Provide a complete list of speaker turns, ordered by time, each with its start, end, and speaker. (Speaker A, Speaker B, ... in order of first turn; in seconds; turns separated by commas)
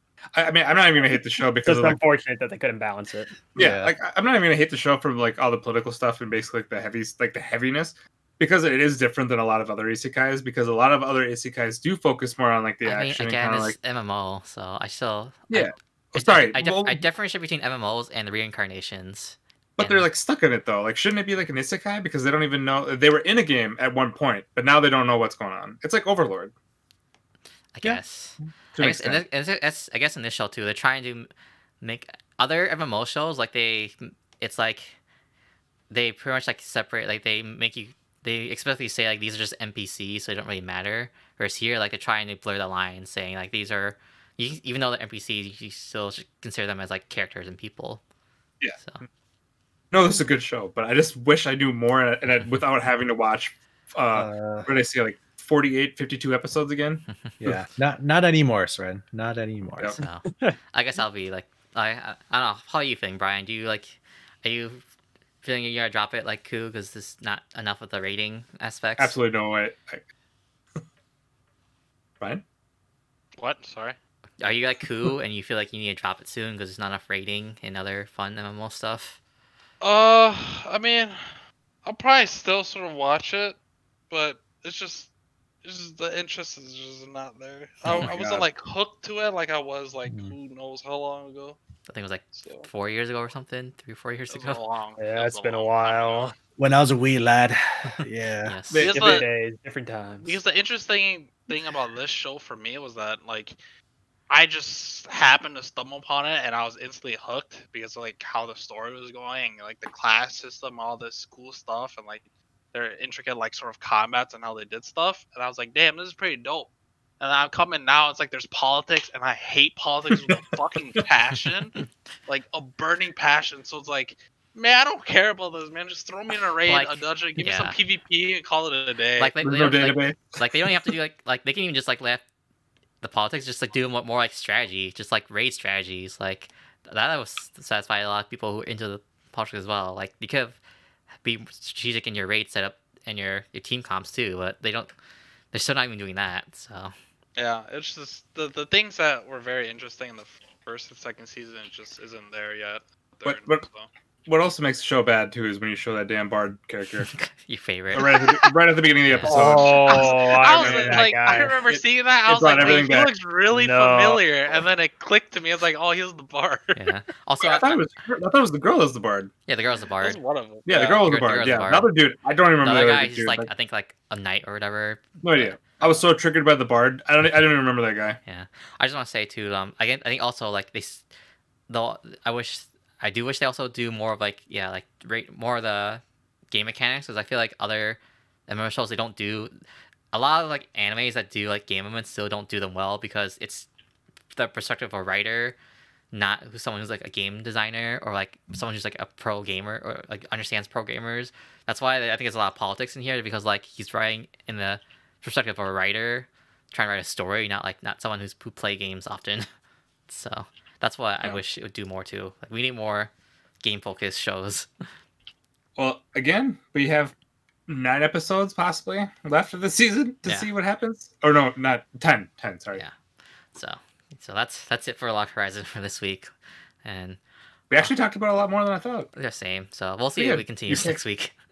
Speaker A: 0.3-2.0, Speaker B: 1.1-3.5, Speaker A: 3.5-13.8, Speaker C: 3.6-3.9, Speaker D: 12.8-20.1, Speaker A: 15.5-17.0, Speaker A: 19.8-26.5, Speaker D: 27.7-31.3, Speaker A: 28.7-29.2, Speaker D: 31.8-35.0, Speaker D: 35.9-48.0, Speaker D: 48.8-49.0, Speaker A: 49.9-57.5, Speaker C: 54.1-54.7, Speaker C: 57.4-60.0, Speaker D: 60.0-64.8, Speaker B: 60.2-60.6, Speaker D: 65.4-69.1, Speaker A: 69.0-70.1, Speaker E: 73.4-74.0, Speaker D: 74.4-79.2, Speaker E: 79.8-81.2, Speaker E: 81.8-83.6, Speaker E: 84.1-85.1, Speaker E: 85.6-91.6, Speaker A: 87.8-88.5, Speaker C: 90.0-90.3, Speaker D: 91.9-94.6, Speaker E: 92.3-92.7, Speaker E: 94.3-96.3, Speaker B: 95.0-96.3, Speaker C: 96.6-98.6, Speaker D: 98.4-99.0, Speaker A: 98.7-99.2, Speaker E: 98.8-99.2, Speaker B: 98.9-100.4, Speaker E: 100.2-103.6, Speaker E: 104.3-129.3, Speaker D: 126.7-127.8, Speaker D: 129.2-132.2, Speaker A: 129.4-130.4, Speaker D: 133.0-140.6, Speaker D: 141.2-144.9, Speaker D: 145.5-146.9, Speaker E: 147.3-153.9, Speaker A: 153.2-153.7, Speaker A: 154.2-157.1, Speaker D: 157.1-158.3, Speaker A: 157.9-161.1, Speaker D: 159.1-159.9, Speaker B: 159.2-161.6, Speaker E: 159.7-166.8, Speaker A: 161.7-163.1, Speaker B: 163.5-164.2, Speaker D: 166.8-167.8, Speaker A: 167.4-169.3, Speaker D: 169.5-170.2, Speaker E: 170.0-170.8, Speaker A: 170.7-173.5, Speaker D: 170.7-171.9, Speaker D: 172.6-176.0, Speaker A: 175.2-178.2, Speaker D: 178.2-181.0, Speaker D: 181.7-189.5, Speaker D: 190.1-193.7, Speaker D: 194.3-195.6, Speaker D: 196.1-209.5, Speaker D: 210.1-214.7, Speaker A: 215.8-217.1, Speaker A: 217.7-222.8, Speaker D: 220.2-220.5, Speaker D: 223.5-226.3, Speaker D: 226.8-227.2, Speaker A: 227.7-229.1, Speaker D: 229.1-231.3, Speaker A: 230.2-231.0